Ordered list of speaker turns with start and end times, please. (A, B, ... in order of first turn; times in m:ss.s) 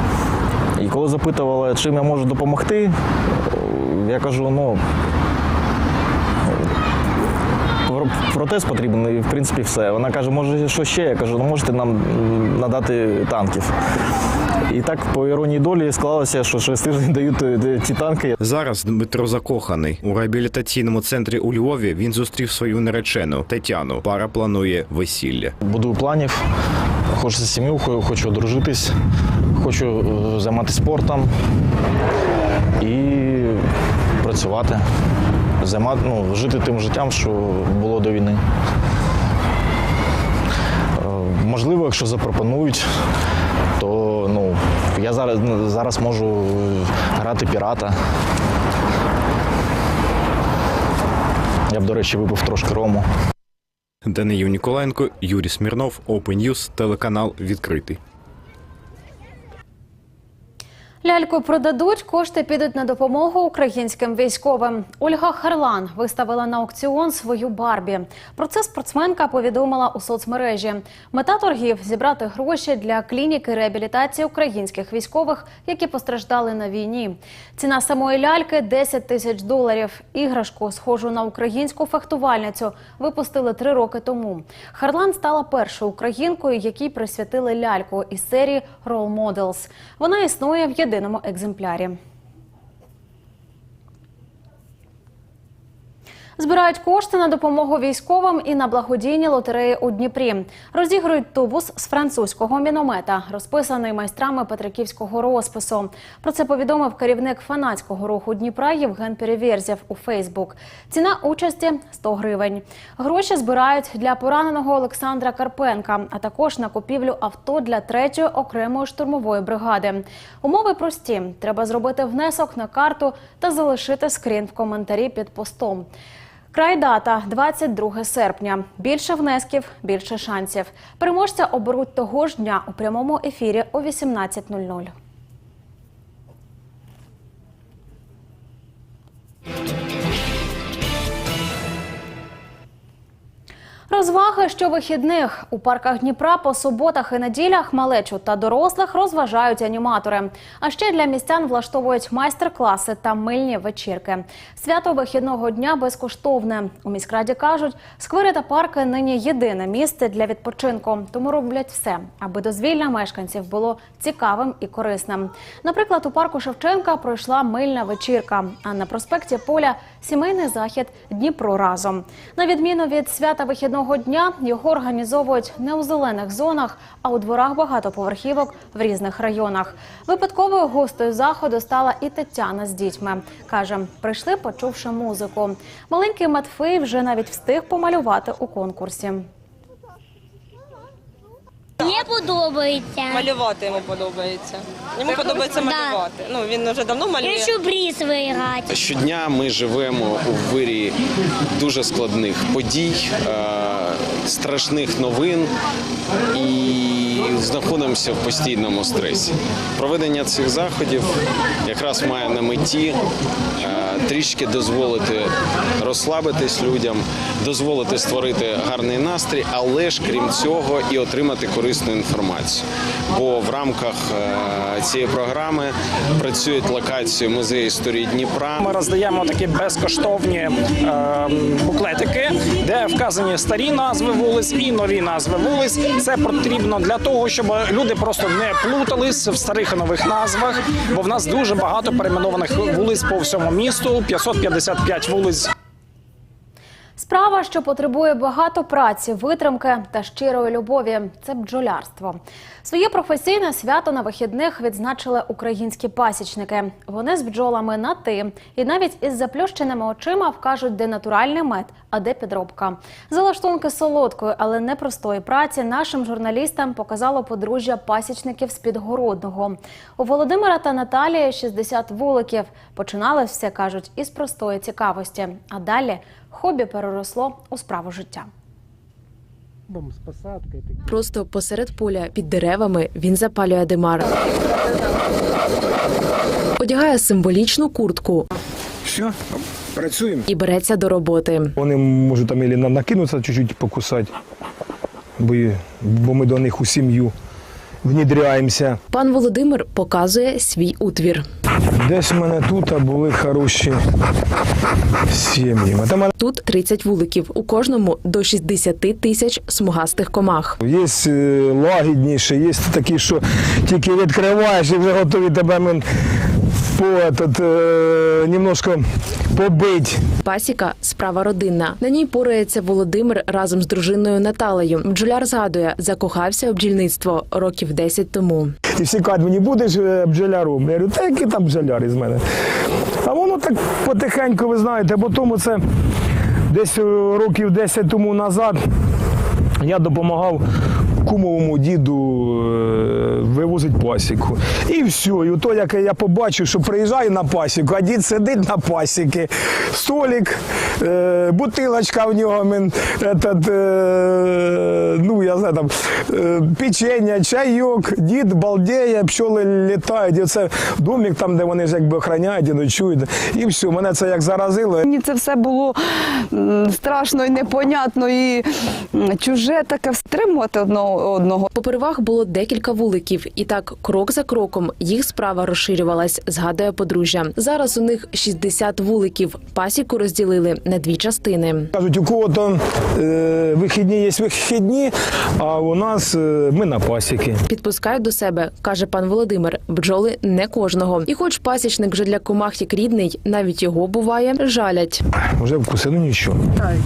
0:00.8-0:04.8 A
0:07.8-0:13.7 A
0:14.6-0:18.4 A
0:18.4-0:25.5 B
0:25.6-0:26.4 A
0:27.1-0:28.9 A
0:29.5-0:31.3 A
0:32.8-0:33.6 A
0:34.2-0:34.9 A
0:35.6-0:38.4 A
0:41.0-0:42.9 A
0:43.8-0:48.0 A
0:51.7-0:53.1 A
0:54.0-0:58.0 B
1:01.0-1:32.0 C
1:36.4-2:05.9 C
2:06.5-2:14.9 C
2:23.9-3:09.2 C
3:11.8-3:13.3 D
3:13.1-3:17.5 E
3:15.5-3:16.0 D
3:17.2-3:18.7 D
3:18.7-3:21.0 F
3:21.5-3:25.5 F
3:26.3-3:31.1 F
3:31.6-3:33.0 F
3:33.6-3:48.6 F
3:48.6-4:05.5 G
4:07.0-4:38.3 C
4:40.8-4:44.1 H
4:46.6-4:48.3 H
4:48.8-4:50.3 I
4:50.3-4:51.5 H
4:51.6-4:54.1 I
4:55.2-4:57.1 I
4:57.8-4:58.8 I
4:58.9-5:01.2 H
5:01.8-5:03.8 I
5:05.1-5:06.1 I
5:06.1-5:10.6 H
5:10.6-5:15.8 I
5:16.7-5:20.1 I
5:20.2-5:28.5 H
5:28.8-5:32.2 I
5:33.0-5:35.6 I
5:36.5-5:38.6 I
5:39.6-5:40.4 I
5:41.0-6:04.8 I
6:04.8-6:05.8 J
6:06.3-6:11.5 J
6:11.5-6:21.7 H
6:21.7-6:27.4 I
6:27.5-6:35.0 H
6:35.4-6:36.4 I